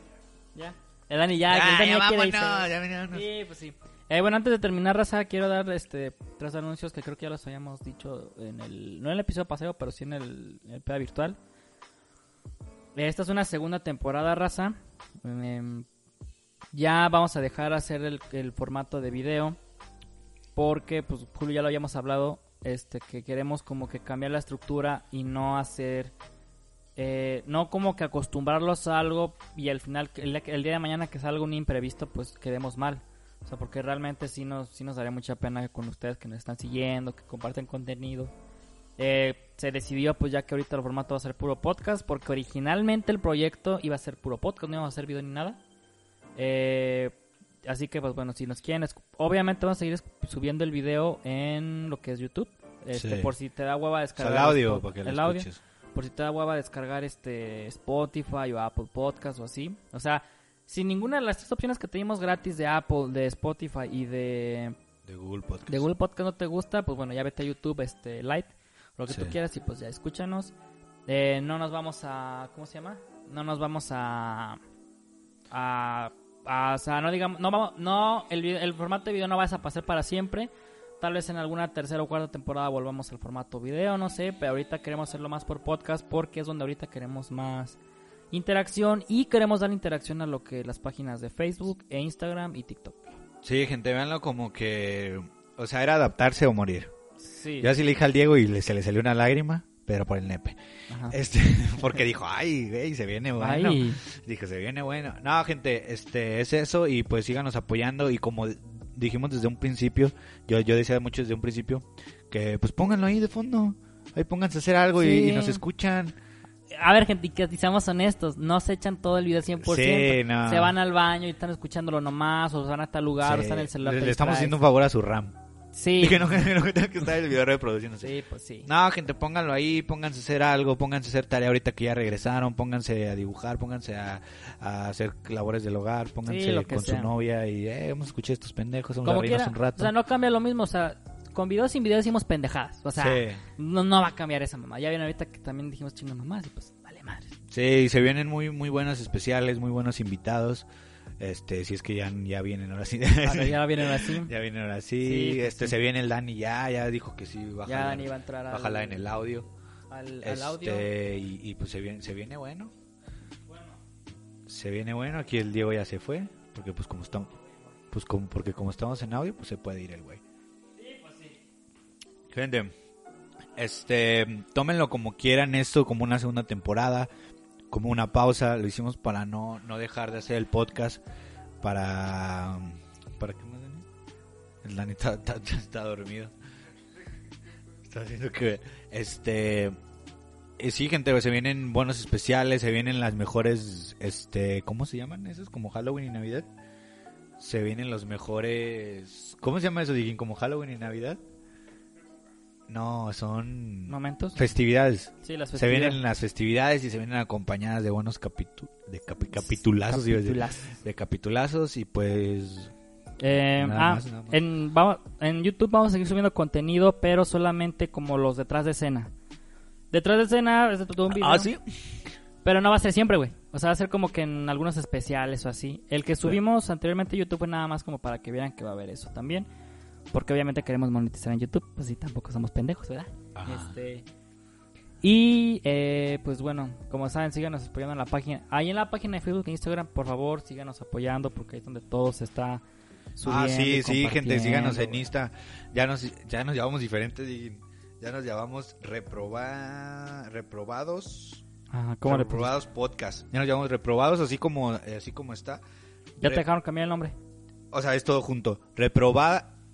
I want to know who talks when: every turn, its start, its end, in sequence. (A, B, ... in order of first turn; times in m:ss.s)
0:00.5-0:11.4 A
0:01.5-0:03.3 B
0:12.9-0:15.9 A
0:16.7-0:19.6 A
0:20.5-0:26.1 A
0:27.0-0:38.3 A
0:39.0-0:45.6 A
0:46.4-1:04.8 A
0:52.9-0:53.3 B
0:54.2-0:55.6 B
1:05.0-1:05.9 B
1:05.7-1:10.5 A
1:09.1-1:09.4 B
1:11.1-1:14.6 A
1:15.5-1:27.8 A
1:28.3-1:33.2 A
1:33.4-1:36.9 B
1:37.2-1:37.7 A
1:37.6-1:40.6 B
1:40.9-1:41.2 A
1:41.1-1:56.2 B
1:43.4-1:44.0 A
1:55.0-1:55.6 A
1:56.7-2:04.6 A
1:59.6-2:00.8 B
2:03.2-2:05.3 B
2:05.7-2:06.5 A
2:06.0-2:08.1 B
2:08.0-2:08.7 A
2:08.6-2:19.9 B
2:16.2-2:17.1 A
2:19.0-2:27.3 A
2:23.0-2:23.4 B
2:27.5-2:30.7 B
2:31.2-2:39.4 B
2:33.2-2:34.3 A
2:35.0-2:35.8 A
2:37.6-2:39.1 A
2:39.9-2:40.9 A
2:40.2-2:42.7 B
2:43.5-2:43.8 A
2:44.5-2:47.3 B
2:47.9-2:50.2 B
2:50.8-2:51.4 A
2:52.3-2:52.7 B
2:53.5-2:57.1 B
2:57.7-3:01.0 B
3:01.6-3:03.8 B
3:04.6-3:06.3 B
3:07.8-3:09.8 B
3:10.6-3:16.5 B
3:17.4-3:21.2 B
3:22.7-3:32.7 B
3:23.9-3:24.4 A
3:25.2-3:26.0 A
3:29.4-3:30.8 A
3:33.2-3:39.1 A
3:33.6-3:34.4 B
3:39.9-3:41.5 A
3:41.1-3:41.7 B
3:42.4-3:49.5 A
3:50.1-3:54.0 A
3:53.3-3:53.7 B
3:55.0-4:02.6 A
4:03.2-4:05.1 A
4:03.2-4:11.4 B
4:11.7-4:12.6 A
4:12.0-4:15.6 B
4:16.2-4:17.2 A
4:17.7-4:19.5 B